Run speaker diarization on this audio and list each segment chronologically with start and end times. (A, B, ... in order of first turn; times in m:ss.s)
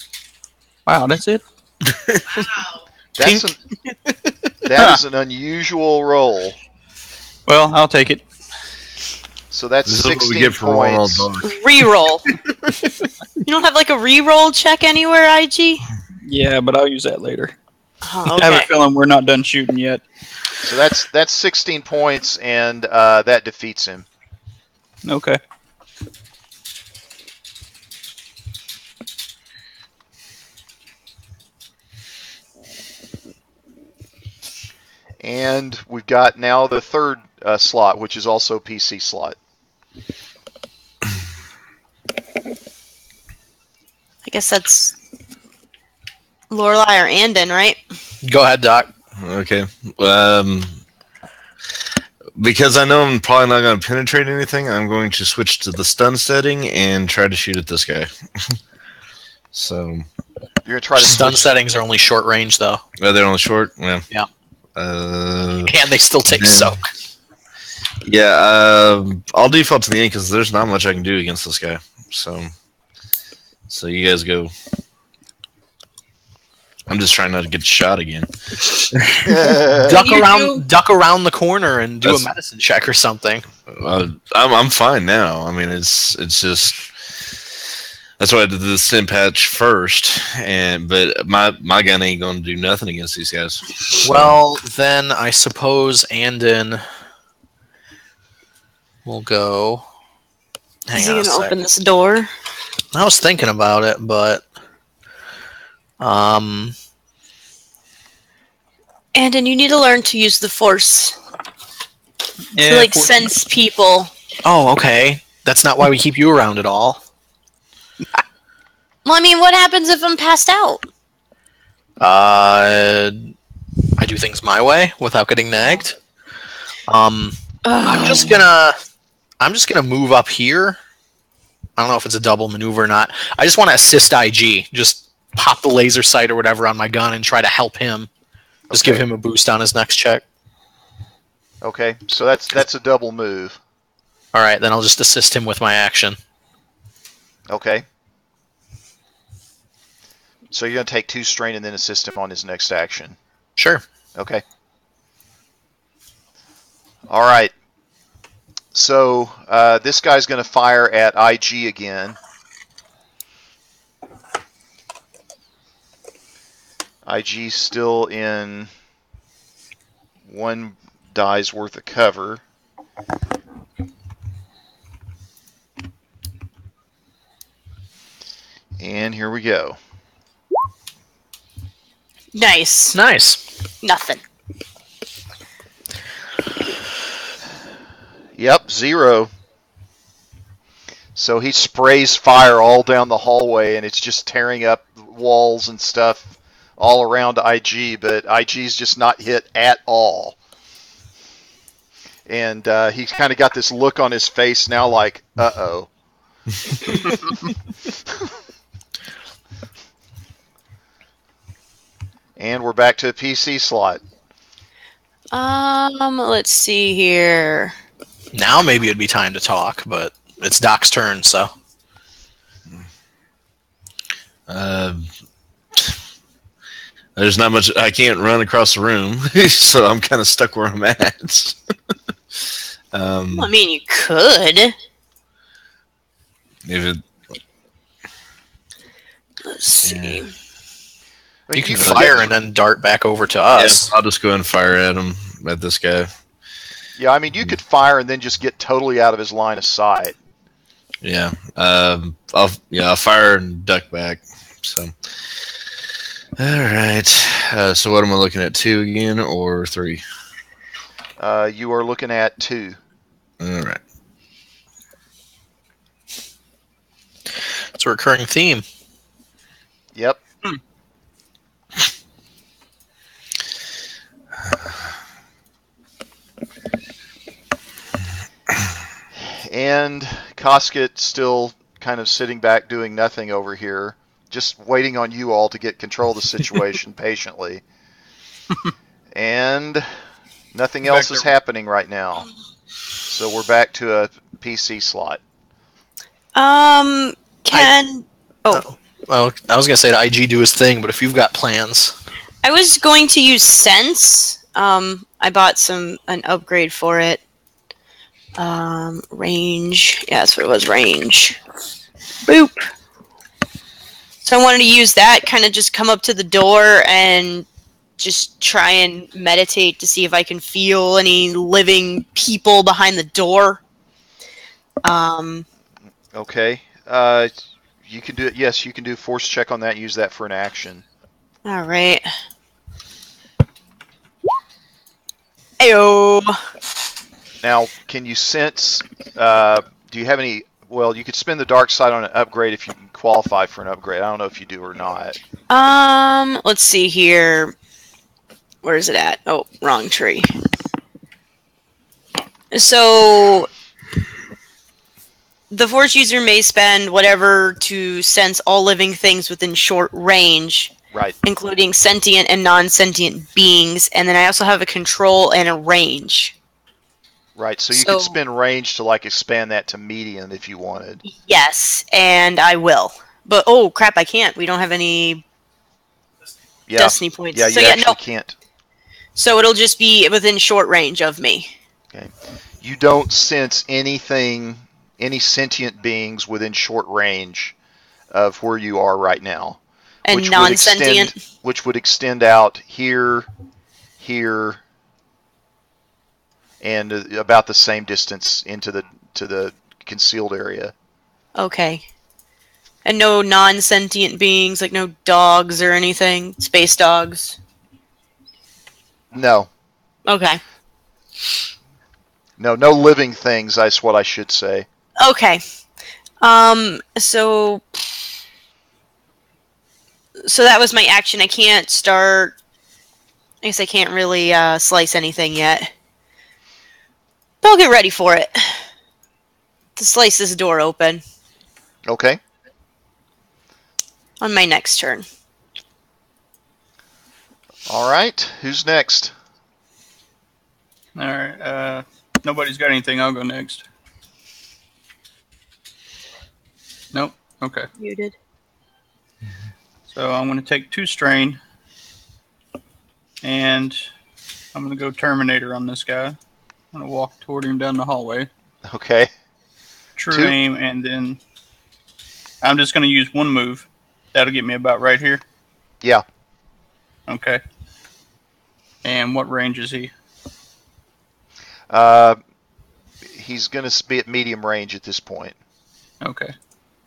0:00.8-0:01.4 A
0:01.9-0:02.2 B
0:03.2-0:03.6 C
0:04.6-0:06.6 C
0:07.5-0:08.2 A
0:09.5-0:11.3 C
0:09.8-0:11.6 B
0:11.4-0:12.2 D
0:13.4-0:15.8 D
0:16.2-0:17.5 A
0:18.0-0:18.7 D
0:18.3-0:20.0 A
0:20.6-0:24.0 C
0:25.0-0:25.4 A
0:35.2-0:39.4 C
0:44.2-0:44.9 D
0:46.5-0:47.8 D
0:48.2-0:48.9 E
0:49.2-0:50.8 B
0:52.4-0:58.6 B
0:59.5-1:00.0 B
1:00.6-1:01.5 C
1:01.0-1:02.8 E
1:03.0-1:04.0 B
1:04.8-1:05.8 B
1:05.6-1:06.9 E
1:06.3-1:06.8 B
1:08.0-1:12.5 B
1:13.7-1:14.5 B
1:16.9-1:18.3 B
1:18.9-1:19.5 B
1:19.2-1:20.0 C
1:19.8-1:23.4 E
1:19.9-1:20.6 D
1:23.7-1:26.9 B
1:28.2-1:34.4 B
1:34.0-1:36.9 E
1:39.0-1:39.8 E
1:40.9-1:41.5 E
1:40.9-1:42.3 D
1:42.9-1:44.4 E
1:46.0-1:46.7 E
1:49.1-1:51.2 D
1:52.5-1:53.3 A
1:52.6-1:54.1 D
1:54.4-1:57.0 E
1:59.0-2:00.9 D
2:02.0-2:03.3 E
2:04.0-2:06.0 E
2:06.9-2:08.8 E
2:07.6-2:08.5 D
2:09.4-2:10.8 E
2:11.8-2:18.1 E
2:18.7-2:19.0 C
2:18.7-2:20.2 E
2:21.6-2:23.6 C
2:24.3-2:26.2 E
2:27.5-2:27.8 C
2:30.5-2:33.2 C
2:33.6-2:33.8 E
2:34.2-2:34.4 C
2:37.1-2:37.5 C
2:38.7-2:42.2 C
2:47.0-2:48.7 C
2:50.3-2:52.4 C
2:58.8-2:59.8 C
3:02.3-3:03.0 D
3:02.9-3:03.4 E
3:03.8-3:04.2 D
3:08.4-3:09.3 C
3:11.2-3:20.4 C
3:22.3-3:25.9 C
3:32.4-3:34.0 C
3:35.3-3:37.8 D
3:38.3-3:41.5 E
3:44.5-3:45.1 B
3:47.2-3:51.6 B
3:52.9-3:53.5 B
3:53.3-3:54.7 D
3:56.6-3:57.0 B
3:59.4-4:00.3 D
3:59.8-4:00.2 B
4:01.5-4:02.3 C
4:01.6-4:03.9 E
4:01.7-4:02.2 B
4:03.6-4:06.1 B
4:07.0-4:10.2 C
4:11.0-4:14.9 B
4:16.4-4:20.0 B
4:21.2-4:22.8 C
4:23.4-4:23.8 B
4:27.7-4:28.6 E
4:39.2-4:47.6 C
4:49.1-4:49.9 C
4:50.5-4:52.3 C
4:50.8-4:51.3 A
4:53.1-4:55.2 C
4:56.3-4:58.6 D
4:58.5-5:01.9 E
5:02.4-5:07.2 D
5:08.4-5:11.4 D
5:12.2-5:12.7 D
5:14.2-5:17.5 D
5:18.0-5:23.6 D
5:24.8-5:25.5 D
5:26.1-5:27.3 C
5:27.8-5:30.8 C
5:31.4-5:32.1 D
5:35.6-5:36.4 D
5:37.4-5:45.2 C
5:45.5-5:47.5 D
5:48.6-5:50.3 D
5:52.5-5:53.5 D
5:55.5-6:00.7 D
6:01.2-6:06.3 D
6:07.4-6:11.0 C
6:07.7-6:08.2 D
6:11.0-6:15.2 D
6:16.7-6:18.4 C
6:16.8-6:18.0 D
6:19.2-6:21.5 D
6:22.6-6:27.5 C
6:28.1-6:33.3 C
6:30.0-6:31.2 D
6:34.0-6:34.6 C
6:36.6-6:40.7 C
6:41.4-6:41.8 D
6:42.8-6:47.4 D
6:49.1-6:49.5 C
6:50.1-6:50.4 D
6:52.4-6:54.7 C
6:55.0-6:55.4 D
6:56.2-6:57.8 D
7:00.2-7:02.3 D
7:03.4-7:05.7 D
7:07.4-7:08.6 D
7:09.8-7:11.0 D
7:11.9-7:12.2 C
7:14.2-7:15.0 D
7:17.7-7:19.1 C
7:20.9-7:23.6 A
7:26.9-7:27.7 A
7:27.8-7:28.1 D
7:29.9-7:31.4 A
7:33.2-7:33.8 A
7:34.5-7:36.2 A
7:36.7-7:38.3 A
7:38.7-7:39.1 C
7:40.0-7:41.2 A
7:42.4-7:45.2 A
7:47.1-7:47.4 A
7:48.8-7:49.9 A
7:51.7-7:52.2 C
7:53.1-7:55.4 C
7:56.0-7:56.3 A